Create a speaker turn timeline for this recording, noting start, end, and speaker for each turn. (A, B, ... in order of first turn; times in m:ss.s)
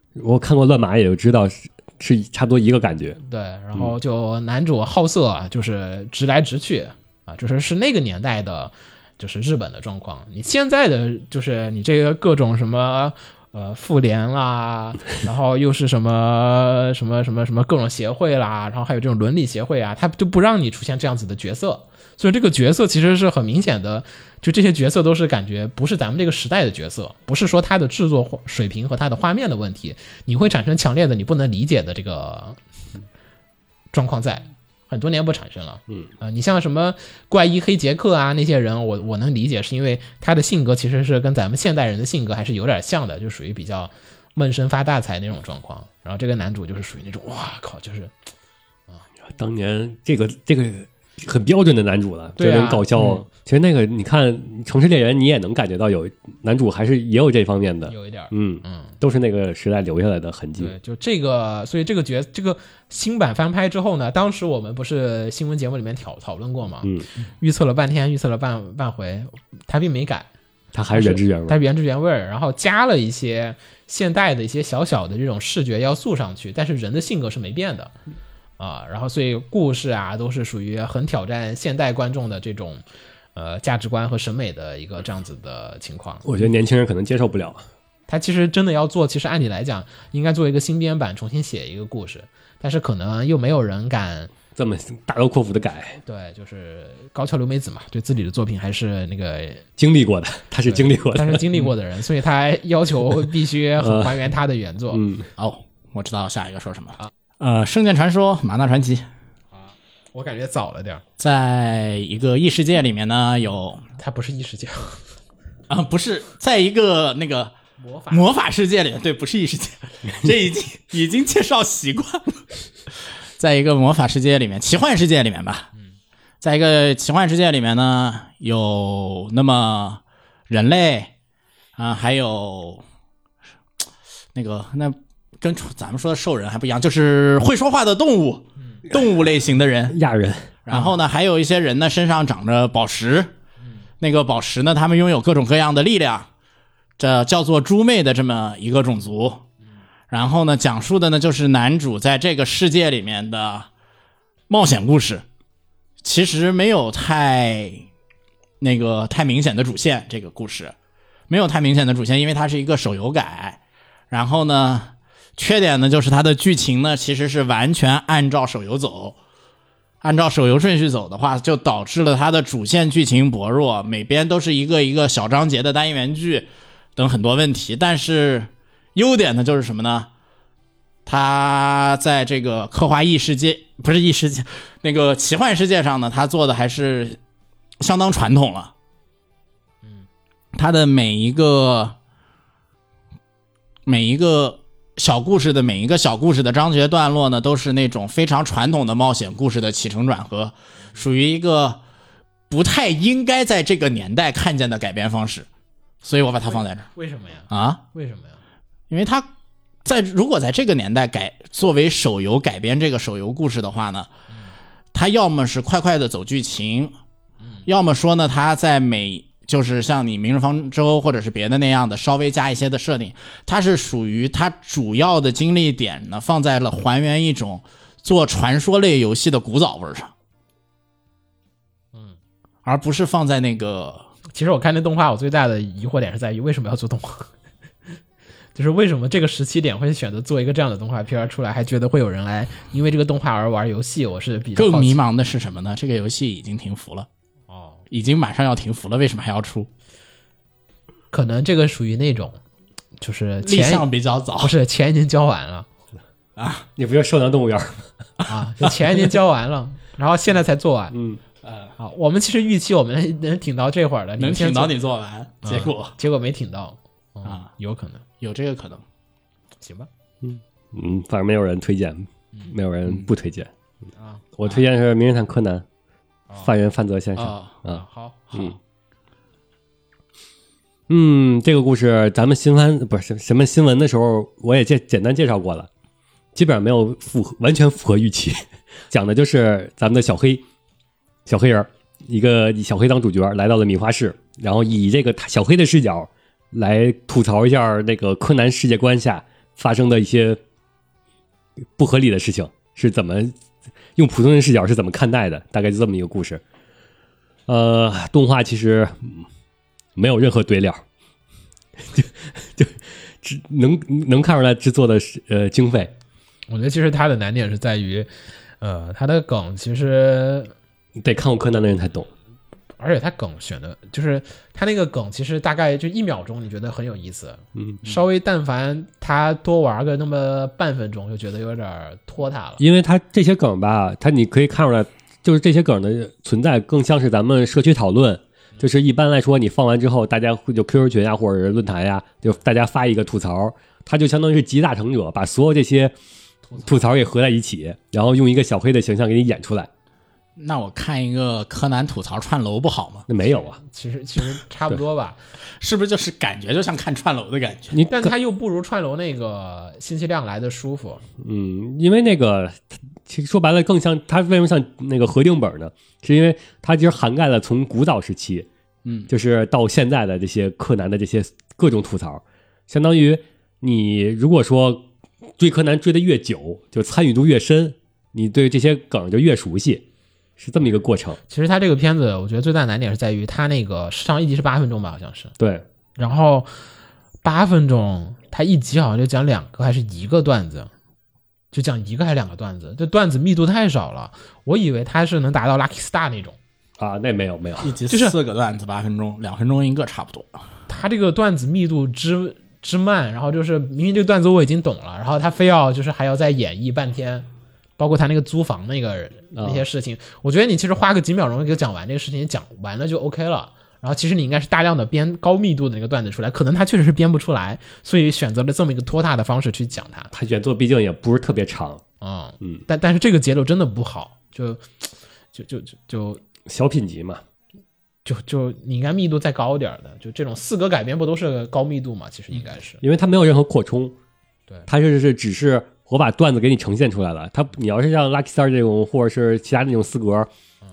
0:00.2-0:03.2 A
0:03.2-0:32.6 B
0:33.9-0:48.1 B
0:49.3-1:00.7 A
0:52.4-0:52.9 B
0:57.9-0:58.9 B
1:00.6-1:10.3 B
1:10.7-1:11.6 A
1:10.9-1:17.9 B
1:18.6-1:22.8 B
1:23.3-1:26.2 B
1:26.2-1:27.6 A
1:28.1-1:34.3 B
1:34.6-1:36.0 A
1:36.0-1:39.6 B
1:39.8-1:41.4 A
1:40.7-1:45.0 B
1:43.8-1:44.1 A
1:44.9-1:45.3 A
1:45.4-1:49.0 C
1:49.5-1:51.0 B
1:51.2-1:53.9 C
1:54.0-1:55.0 B
1:55.7-1:57.5 C
1:57.8-1:58.3 B
1:58.1-2:02.4 C
2:03.4-2:05.7 C
2:06.4-2:11.1 C
2:11.8-2:12.8 C
2:14.3-2:20.0 C
2:19.9-2:20.6 A
2:20.7-2:23.3 C
2:24.0-2:26.3 C
2:27.0-2:29.4 C
2:30.1-2:33.7 C
2:34.5-2:35.2 C
2:36.0-2:37.9 C
2:38.6-2:40.7 C
2:41.3-2:49.2 C
2:50.0-3:00.1 C
3:01.0-3:07.2 C
3:07.8-3:08.7 C
3:10.5-3:12.0 C
3:13.8-3:21.8 C
3:22.5-3:25.5 C
3:26.0-3:26.9 C
3:26.9-3:28.4 B
3:27.5-3:27.8 C
3:28.9-3:29.3 C
3:29.8-3:34.1 C
3:34.9-3:37.0 C
3:37.6-3:50.1 C
3:52.6-3:54.1 C
3:54.3-3:57.3 B
3:58.5-4:05.0 B
4:04.6-4:07.1 C
4:07.5-4:07.8 B
4:07.9-4:09.7 C
4:11.1-4:12.4 B
4:13.0-4:13.9 B
4:13.4-4:14.5 C
4:14.4-4:15.7 B
4:16.4-4:16.6 C
4:16.8-4:17.8 A
4:18.3-4:20.9 B
4:20.9-4:21.2 A
4:21.4-4:21.7 C
4:21.8-4:24.7 B
4:24.2-4:26.0 C
4:25.4-4:28.0 B
4:28.2-4:28.8 C
4:29.6-4:29.9 B
4:30.2-4:33.5 A
4:34.0-4:34.2 B
4:34.4-4:35.6 A
4:36.4-4:37.8 A
4:37.2-4:37.5 C
4:37.7-4:38.4 B
4:40.9-4:45.7 A
4:46.3-4:50.4 A
4:51.2-5:00.4 A
5:01.8-5:03.3 A
5:04.0-5:06.4 A
5:07.5-5:09.2 A
5:10.0-5:10.8 A
5:11.9-5:15.9 A
5:16.5-5:18.1 B
5:18.6-5:20.5 B
5:21.0-5:22.1 A
5:22.8-5:32.6 B
5:27.6-5:27.8 A
5:32.6-5:45.9 A
5:46.6-5:49.7 A
5:50.4-5:53.1 C
5:53.1-5:53.6 A
5:53.6-5:55.2 B
5:55.6-5:57.8 C
5:57.7-5:58.1 A
5:57.9-6:01.0 B
6:01.2-6:08.5 A
6:09.1-6:14.9 A
6:15.4-6:19.8 A
6:20.4-6:21.2 A
6:21.3-6:25.3 B
6:25.4-6:25.6 A
6:26.0-6:26.5 B
6:27.2-6:30.7 B
6:31.5-6:36.4 B
6:36.8-6:37.7 A
6:37.6-6:40.4 C
6:37.9-6:38.1 B
6:40.7-6:47.3 B
6:47.8-7:00.1 B
6:49.4-6:49.6 A
7:00.1-7:01.8 A
7:02.0-7:06.2 B
7:06.4-7:07.2 A
7:08.0-7:12.8 B
7:12.8-7:13.9 A
7:14.7-7:20.3 A